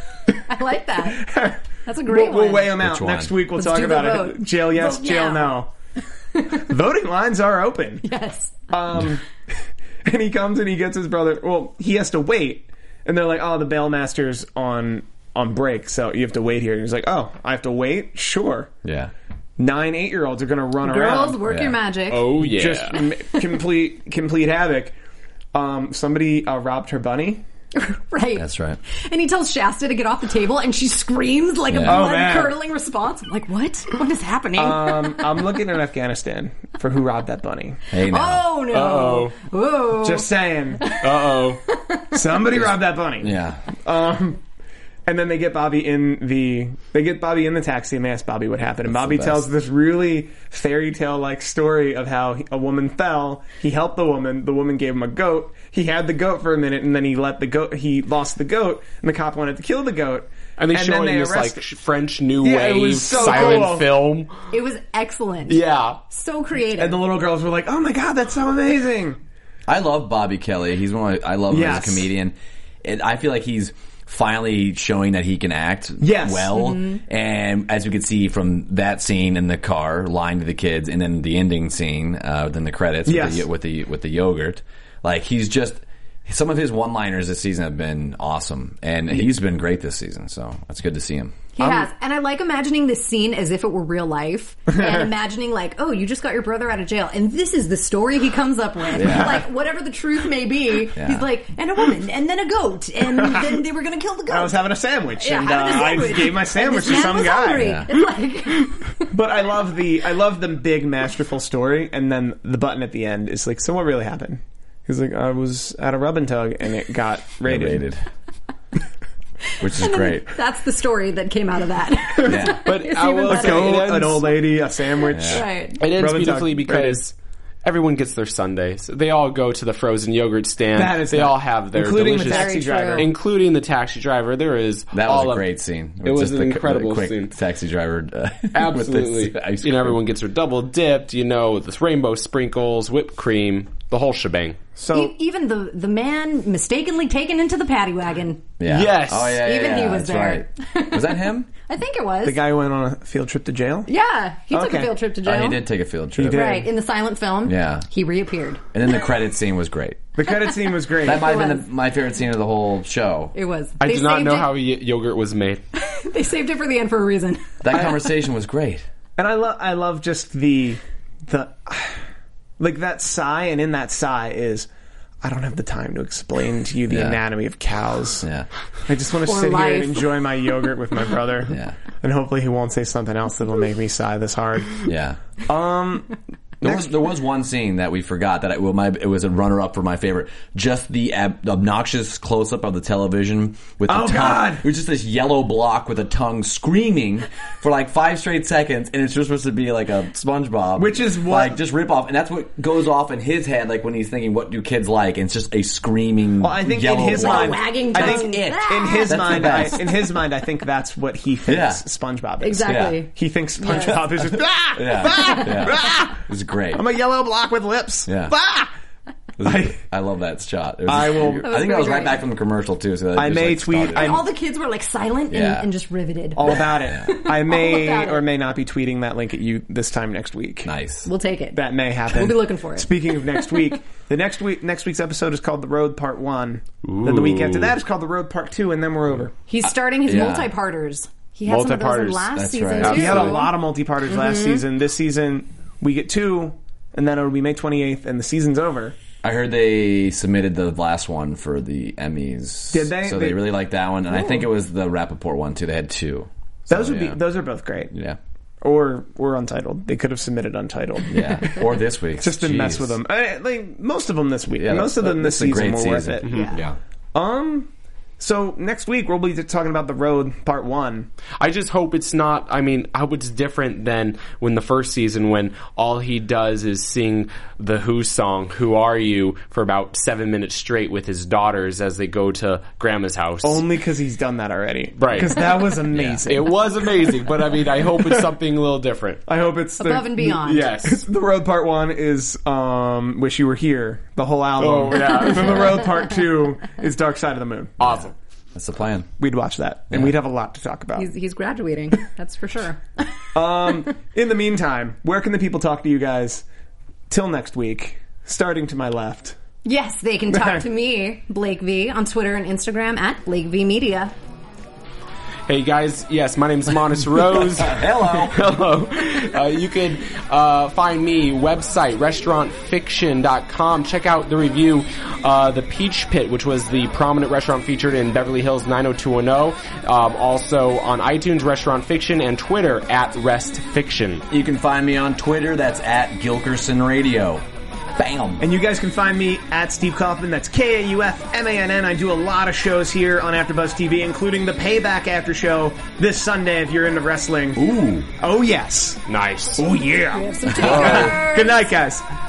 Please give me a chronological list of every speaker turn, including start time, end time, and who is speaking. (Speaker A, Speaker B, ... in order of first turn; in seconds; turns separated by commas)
Speaker A: 0.5-1.3, Speaker B: 1.1-5.7, Speaker A: 1.9-2.8, Speaker C: 2.8-3.4, Speaker A: 3.6-5.6, Speaker B: 6.5-8.1, Speaker A: 8.0-8.7, Speaker B: 8.7-9.2, Speaker B: 10.1-18.7, Speaker C: 18.8-19.1, Speaker B: 19.6-21.4, Speaker A: 20.8-22.3, Speaker C: 21.4-21.8, Speaker D: 22.1-23.0, Speaker B: 22.4-25.0, Speaker B: 25.5-27.4, Speaker A: 27.8-35.2, Speaker C: 28.4-28.8, Speaker C: 31.7-32.0, Speaker B: 31.9-32.6, Speaker B: 34.6-37.8, Speaker C: 37.9-38.5, Speaker A: 38.0-40.3, Speaker D: 38.7-39.3, Speaker B: 40.0-40.9, Speaker A: 40.8-42.0, Speaker D: 40.9-41.6, Speaker B: 42.1-44.4, Speaker C: 42.5-43.6, Speaker B: 45.1-61.6, Speaker C: 48.9-49.5, Speaker D: 60.6-64.3, Speaker B: 62.4-64.0, Speaker A: 63.1-63.9, Speaker A: 64.5-67.0, Speaker D: 65.5-66.0, Speaker B: 66.8-69.2, Speaker C: 69.7-91.5, Speaker B: 71.5-72.1, Speaker B: 76.0-76.5, Speaker A: 76.5-77.0, Speaker B: 83.1-83.5, Speaker A: 91.6-104.6, Speaker B: 91.6-91.8, Speaker C: 98.9-99.5, Speaker C: 101.0-101.3, Speaker B: 104.3-107.8, Speaker A: 105.2-108.8, Speaker C: 107.5-107.9, Speaker B: 109.1-117.9, Speaker C: 117.4-118.0, Speaker C: 119.6-120.3, Speaker A: 119.6-123.8, Speaker C: 122.2-122.7, Speaker D: 122.7-124.4, Speaker B: 123.3-127.0, Speaker A: 125.0-125.8, Speaker C: 125.1-125.5, Speaker D: 125.8-135.4, Speaker B: 130.8-133.1, Speaker A: 132.2-133.1, Speaker C: 134.9-140.0, Speaker D: 136.0-137.3, Speaker D: 138.5-144.6, Speaker B: 144.8-145.1, Speaker A: 144.9-148.4, Speaker C: 148.6-151.5, Speaker D: 148.7-149.4, Speaker A: 149.3-152.4, Speaker B: 152.2-153.9, Speaker A: 153.9-155.6, Speaker B: 154.5-155.0, Speaker C: 155.2-156.4, Speaker B: 156.2-156.7, Speaker A: 156.3-158.6, Speaker C: 157.4-157.9, Speaker C: 158.7-160.0, Speaker B: 160.2-161.4, Speaker A: 160.3-161.7, Speaker C: 161.0-163.3, Speaker A: 163.3-164.6, Speaker D: 163.8-165.6, Speaker A: 165.8-167.9, Speaker C: 167.6-168.8, Speaker B: 169.2-172.0, Speaker B: 172.6-174.7, Speaker B: 175.2-178.3, Speaker C: 176.9-177.2, Speaker C: 178.2-178.5, Speaker B: 178.9-184.9, Speaker A: 179.2-180.2, Speaker C: 181.5-181.8, Speaker C: 184.8-185.2, Speaker B: 185.5-186.9, Speaker C: 186.6-210.2, Speaker B: 193.9-194.7, Speaker B: 200.8-201.6, Speaker B: 206.4-218.7, Speaker A: 207.0-209.7, Speaker C: 211.5-211.8, Speaker A: 212.4-214.2, Speaker C: 212.7-213.0, Speaker C: 214.7-216.8, Speaker C: 218.1-218.3, Speaker C: 219.4-224.3, Speaker B: 219.4-219.8, Speaker B: 220.9-221.6, Speaker A: 221.4-222.3, Speaker B: 223.1-224.2, Speaker A: 223.9-228.2, Speaker C: 225.3-225.7, Speaker B: 226.4-230.7, Speaker C: 226.4-227.3, Speaker C: 230.6-231.1, Speaker A: 231.1-233.7, Speaker B: 231.5-239.3, Speaker D: 236.8-237.8, Speaker A: 239.5-244.6, Speaker C: 240.1-240.5, Speaker D: 241.5-243.4, Speaker C: 242.3-243.3, Speaker B: 242.9-249.0, Speaker C: 249.2-257.2, Speaker B: 252.7-253.4, Speaker B: 256.7-257.9, Speaker C: 257.9-258.2, Speaker B: 258.6-261.7, Speaker C: 261.1-263.0, Speaker B: 262.2-266.3, Speaker C: 264.6-266.8, Speaker D: 266.2-266.5, Speaker A: 266.2-266.6, Speaker B: 267.1-271.1, Speaker D: 271.4-283.7, Speaker B: 283.4-287.1, Speaker D: 285.0-285.4, Speaker C: 285.9-286.2, Speaker D: 286.3-289.2, Speaker B: 289.3-298.1, Speaker A: 289.8-290.7, Speaker D: 290.4-291.0, Speaker D: 294.6-295.9, Speaker C: 297.8-299.1, Speaker D: 297.8-298.1, Speaker B: 299.2-301.1, Speaker C: 299.9-300.2, Speaker A: 301.0-302.8, Speaker B: 303.3-306.4, Speaker B: 307.1-309.4, Speaker A: 309.6-314.1, Speaker D: 315.5-334.2, Speaker C: 317.5-318.5, Speaker C: 334.3-337.4, Speaker C: 338.0-338.4, Speaker B: 338.4-347.6, Speaker C: 347.6-348.1, Speaker B: 348.2-349.0, Speaker D: 349.1-349.6, Speaker B: 349.6-352.0, Speaker A: 350.1-351.6, Speaker D: 350.6-351.1, Speaker C: 350.6-350.9